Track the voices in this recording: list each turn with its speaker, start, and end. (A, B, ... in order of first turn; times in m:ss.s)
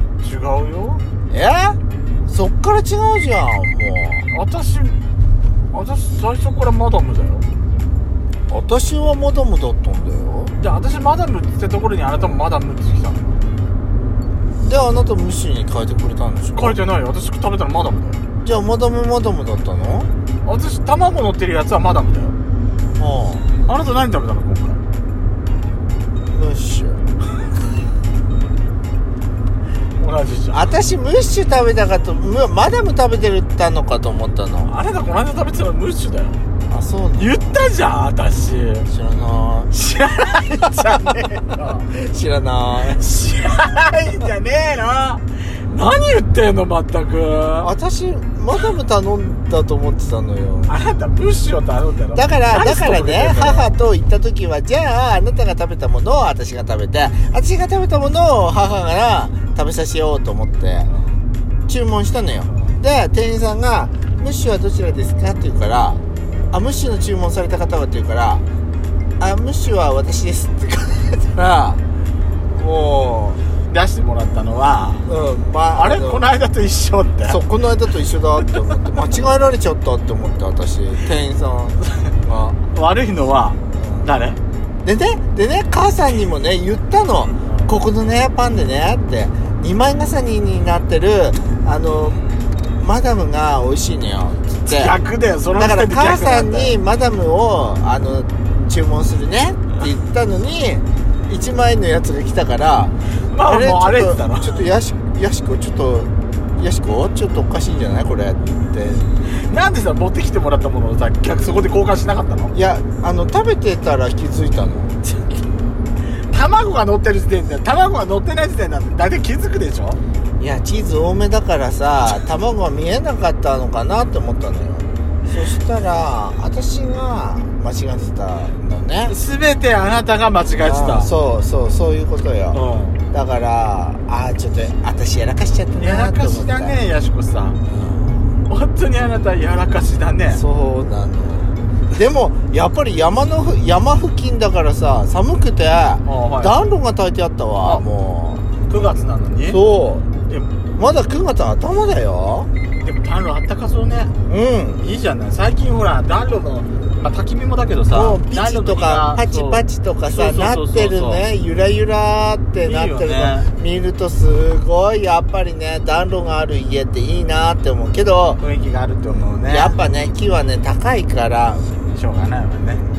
0:00.2-0:01.0 A
0:01.3-0:04.3 B
0:04.3-0:05.0 A
0:05.7-0:07.4 A
0:08.5-0:10.6 B
0:10.6-0:13.4 A
0:14.6-0:16.8 B
0:16.6-0:18.2 A
0:18.4-0:20.1 B
0:20.4-0:22.4 A
0:23.0-0:23.5 B
0:23.6-0:24.8 A
0:26.3-0:27.0 B
0:30.0-0:30.8 A
0:30.5-0:34.7 B
0:34.6-0:36.4 A
0:36.7-0:37.6 B
0:37.2-0:38.9 A
0:38.8-0:39.7 B
0:39.7-0:41.8 A
0:40.4-0:41.0 B
0:41.6-0:43.0 B
0:42.9-0:47.7 A
0:47.6-0:50.8 B
0:50.7-0:53.8 A
0:52.1-1:00.9 B
1:00.8-1:01.2 A
1:01.7-1:08.4 B
1:02.5-1:02.8 A
1:09.2-1:11.8 B
1:12.6-1:13.4 B
1:13.7-1:15.1 A
1:15.0-1:16.3 B
1:15.7-1:17.4 A
1:17.2-1:22.6 B
1:22.6-1:24.4 A
1:23.7-1:24.2 B
1:24.8-1:32.2 B
1:27.4-1:27.7 A
1:32.8-1:35.0 B
1:34.6-1:36.8 A
1:35.5-1:49.1 B
1:43.3-1:44.7 A
1:49.4-1:52.5 A
1:52.5-1:55.0 B
1:56.3-2:00.0 A
2:00.4-2:09.2 B
2:09.1-2:11.1 A
2:10.6-2:16.8 B
2:12.5-2:13.0 A
2:15.8-2:17.6 A
2:17.7-2:18.3 B
2:18.5-2:20.4 A
2:20.3-2:28.5 B
2:26.0-2:26.7 A
2:28.6-2:29.6 A
2:29.4-2:30.1 B
2:30.2-2:30.5 A
2:30.8-2:32.5 B
2:32.8-2:34.2 A
2:34.2-2:34.8 B
2:34.8-2:41.2 A
2:37.9-2:48.4 B
2:42.6-2:43.5 A
2:48.4-2:49.8 A
2:49.4-2:51.7 B
2:51.9-2:52.8 A